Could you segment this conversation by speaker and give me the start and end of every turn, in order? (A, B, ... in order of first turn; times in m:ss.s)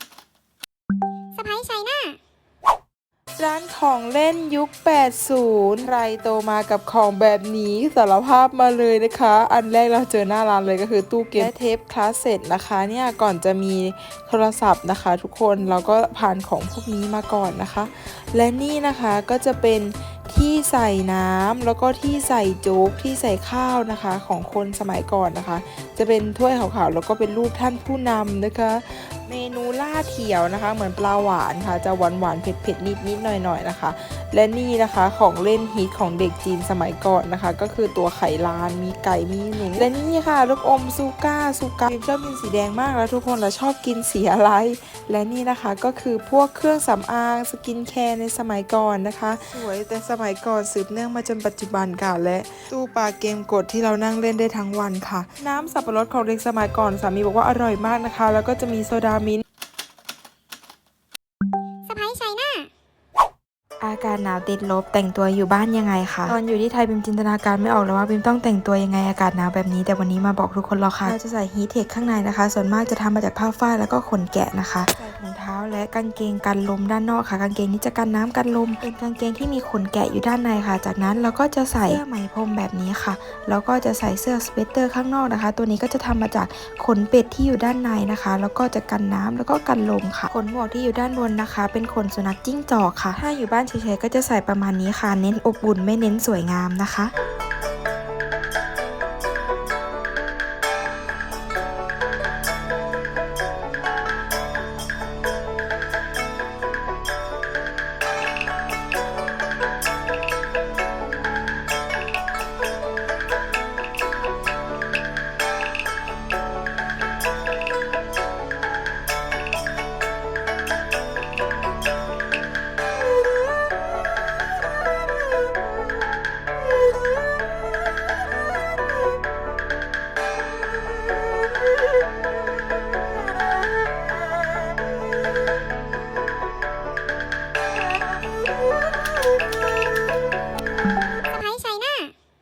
0:01.3-0:02.2 A
0:03.4-0:59.4 B
0:39.6-0:39.9 C
1:01.9-1:02.7 A
1:03.8-1:37.1 C
1:06.3-1:06.6 B
1:21.8-1:22.2 B
2:21.3-2:22.1 A